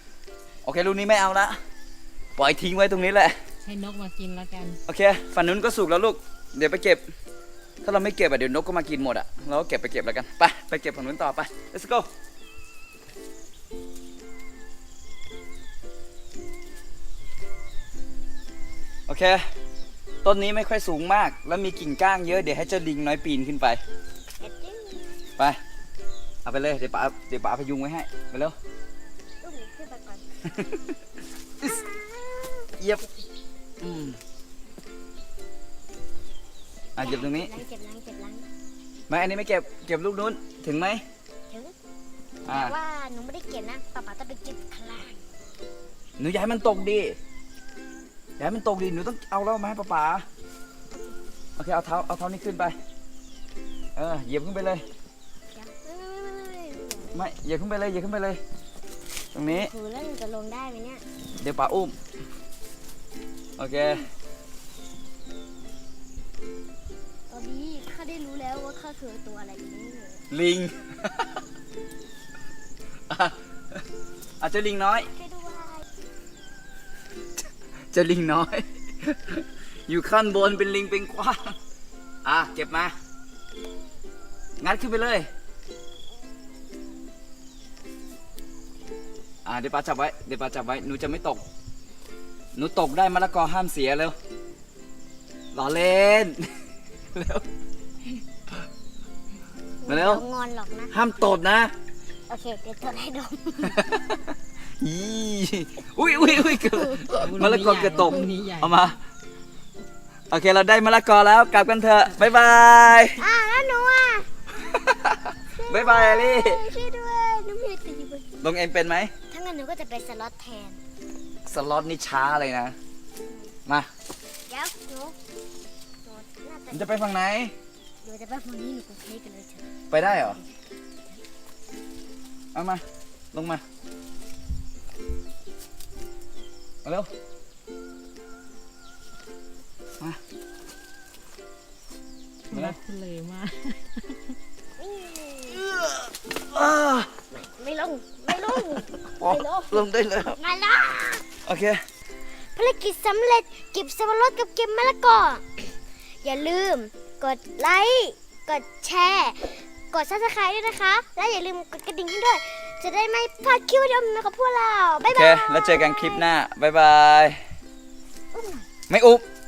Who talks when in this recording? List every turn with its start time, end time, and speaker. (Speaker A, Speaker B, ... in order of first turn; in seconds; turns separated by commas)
Speaker A: 0.7-1.6, Speaker A: 2.4-3.4, Speaker B: 3.6-4.8, Speaker A: 4.9-7.0, Speaker A: 7.8-12.1, Speaker A: 19.1-19.5, Speaker A: 20.2-23.8, Speaker C: 24.4-25.3, Speaker A: 26.4-28.6, Speaker C: 29.4-30.6, Speaker A: 31.6-31.9, Speaker C: 31.6-33.2, Speaker A: 33.8-34.2, Speaker A: 37.0-37.5, Speaker C: 37.0-38.5, Speaker A: 39.1-41.0, Speaker C: 41.5-41.8, Speaker A: 42.5-42.8, Speaker C: 42.5-45.2, Speaker A: 46.2-47.2, Speaker A: 48.4-50.3, Speaker C: 50.9-51.2, Speaker A: 51.6-52.8, Speaker A: 54.0-54.8, Speaker C: 55.5-57.3, Speaker A: 57.1-58.4, Speaker A: 59.3-59.7, Speaker C: 59.5-61.0, Speaker A: 61.4-62.0, Speaker A: 63.6-64.1, Speaker C: 63.8-64.1, Speaker C: 67.3-70.2, Speaker A: 70.3-71.3, Speaker A: 73.1-73.8, Speaker A: 74.4-75.1, Speaker C: 75.1-75.9, Speaker A: 77.9-81.6, Speaker A: 82.2-82.9, Speaker A: 84.6-85.3, Speaker A: 89.5-91.4, Speaker A: 92.5-94.2, Speaker A: 95.5-96.5, Speaker A: 97.1-97.5, Speaker C: 99.8-100.9, Speaker A: 99.9-100.2, Speaker A: 100.9-101.7, Speaker C: 102.3-103.9, Speaker A: 103.7-104.2, Speaker A: 104.8-109.0, Speaker C: 106.0-107.3, Speaker B: 107.1-108.8, Speaker A: 110.3-113.2, Speaker C: 113.2-114.3, Speaker A: 114.7-116.6, Speaker C: 115.6-118.5, Speaker A: 118.4-119.1, Speaker C: 119.3-120.8, Speaker A: 121.5-122.8, Speaker C: 123.2-123.5, Speaker C: 124.5-125.2, Speaker C: 126.0-127.0, Speaker A: 126.7-127.5, Speaker C: 128.0-130.5, Speaker A: 129.9-130.4, Speaker A: 132.6-133.6, Speaker A: 136.8-137.1, Speaker B: 142.5-144.4, Speaker A: 142.5-142.8, Speaker C: 144.8-145.7, Speaker A: 145.7-147.1, Speaker C: 147.3-151.3, Speaker A: 149.1-150.4, Speaker A: 151.4-151.8, Speaker C: 152.3-166.3, Speaker A: 165.1-167.4, Speaker C: 168.3-168.7, Speaker A: 168.9-169.2